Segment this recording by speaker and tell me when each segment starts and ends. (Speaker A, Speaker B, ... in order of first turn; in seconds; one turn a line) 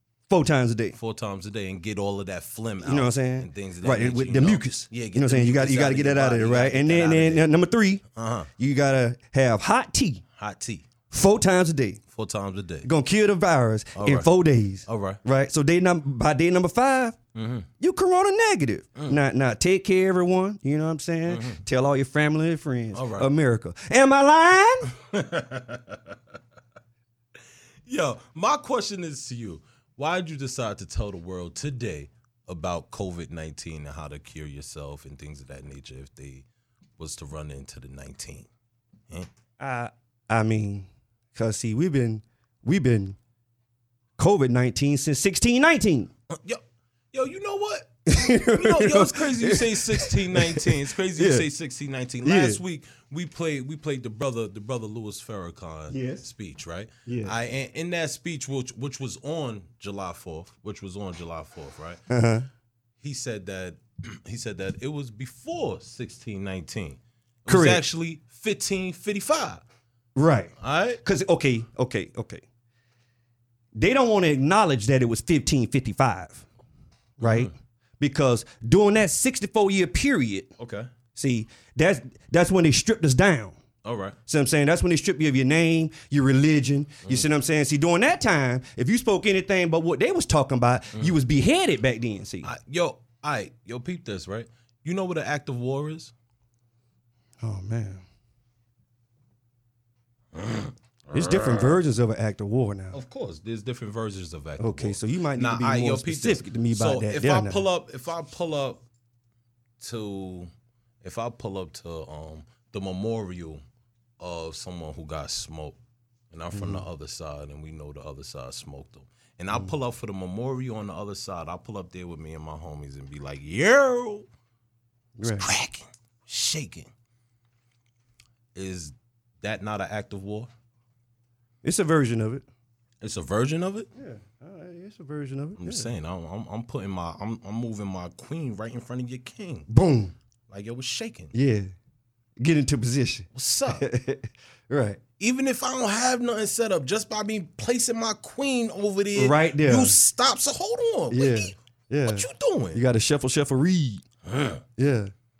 Speaker A: 0.3-0.9
Speaker B: 0.9-7.5
Speaker A: 2.8-8.0
Speaker B: 8.1-8.5
Speaker A: 8.6-10.2
Speaker B: 10.4-10.8
Speaker A: 11.1-12.0
Speaker B: 12.1-12.9
Speaker A: 12.8-17.2
Speaker B: 13.9-14.3
Speaker B: 14.8-15.2
Speaker B: 17.3-17.7
Speaker A: 17.8-24.9
Speaker B: 21.3-21.6
Speaker B: 22.9-23.3
Speaker B: 25.0-26.2
Speaker B: 27.9-36.4
Speaker B: 37.0-38.5
Speaker A: 39.6-43.2
Speaker A: 44.2-46.1
Speaker B: 46.3-46.6
Speaker B: 47.1-62.0
Speaker A: 48.1-51.4
Speaker A: 52.2-52.6
Speaker A: 55.9-56.3
Speaker A: 57.0-57.3
Speaker A: 62.1-62.5
Speaker B: 63.0-69.6
Speaker A: 67.5-67.8
Speaker A: 70.2-72.4
Speaker B: 70.6-71.0
Speaker A: 73.7-76.4
Speaker A: 77.2-80.5
Speaker B: 77.2-77.5
Speaker B: 80.6-80.9
Speaker A: 81.2-83.5
Speaker B: 83.8-84.2
Speaker A: 84.3-92.5
Speaker B: 92.4-96.1
Speaker A: 97.4-98.0
Speaker B: 100.3-101.8
Speaker A: 101.1-103.0
Speaker B: 102.9-108.8
Speaker A: 104.6-107.6
Speaker B: 109.8-110.5
Speaker B: 111.0-113.6
Speaker B: 114.2-115.8
Speaker B: 116.3-124.3
Speaker A: 116.5-116.8
Speaker A: 125.2-125.5
Speaker B: 125.2-126.9
Speaker B: 128.5-130.5
Speaker A: 131.6-132.4
Speaker B: 133.0-133.9
Speaker A: 133.9-135.9
Speaker B: 135.6-139.7
Speaker A: 139.7-140.1
Speaker B: 140.5-141.3
Speaker A: 141.3-141.7
Speaker A: 142.4-145.0
Speaker B: 143.3-143.9
Speaker B: 145.2-152.8
Speaker A: 149.2-149.9
Speaker A: 151.1-154.0
Speaker B: 154.2-154.6
Speaker A: 154.8-155.1